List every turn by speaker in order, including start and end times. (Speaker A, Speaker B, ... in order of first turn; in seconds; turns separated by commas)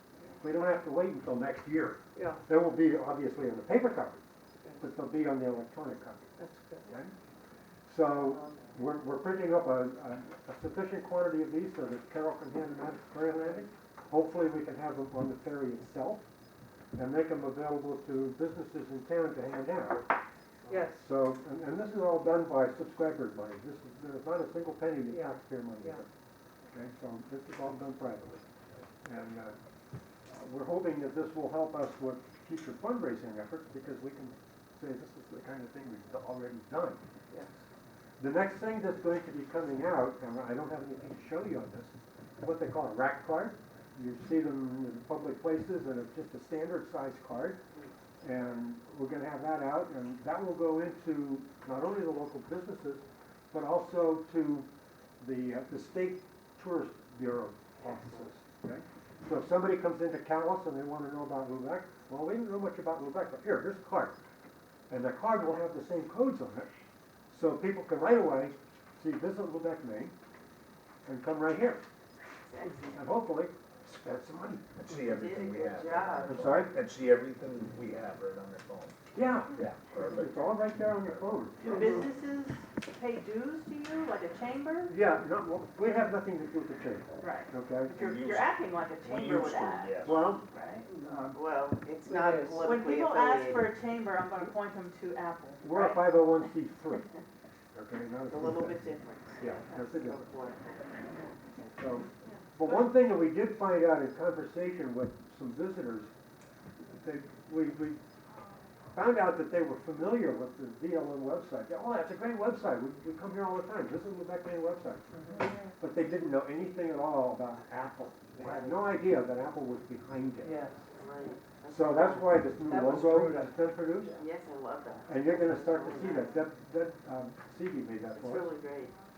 Speaker A: 0.4-4.2, Speaker B: 2.1-2.4, Speaker A: 4.8-6.3, Speaker B: 6.4-6.9, Speaker A: 6.9-7.1, Speaker A: 7.9-16.3, Speaker A: 16.9-20.1, Speaker B: 20.7-21.1, Speaker A: 20.9-26.1, Speaker B: 25.1-26.1, Speaker A: 26.7-28.4, Speaker A: 29.0-29.6, Speaker A: 30.3-37.0, Speaker A: 38.2-47.6, Speaker A: 48.2-54.7, Speaker A: 55.2-64.2, Speaker C: 57.8-58.3, Speaker A: 64.9-66.7, Speaker A: 67.3-70.1, Speaker A: 71.1-71.8, Speaker C: 72.4-73.0, Speaker A: 72.9-74.8, Speaker D: 74.8-79.0, Speaker C: 74.9-76.4, Speaker A: 76.3-76.7, Speaker A: 79.1-82.0, Speaker D: 79.5-80.5, Speaker E: 81.6-85.0, Speaker A: 84.9-88.0, Speaker E: 87.2-90.9, Speaker D: 87.9-90.4, Speaker A: 90.0-91.4, Speaker C: 91.3-93.7, Speaker B: 92.1-92.7, Speaker E: 92.6-96.2, Speaker A: 95.6-97.1, Speaker A: 97.7-100.2, Speaker C: 98.3-101.6, Speaker A: 101.7-106.1, Speaker A: 106.9-108.0, Speaker A: 108.9-120.6, Speaker E: 115.3-115.7, Speaker C: 120.9-122.5, Speaker A: 121.7-124.1, Speaker B: 122.7-123.5, Speaker C: 124.1-126.2, Speaker A: 125.1-128.5, Speaker C: 128.1-128.9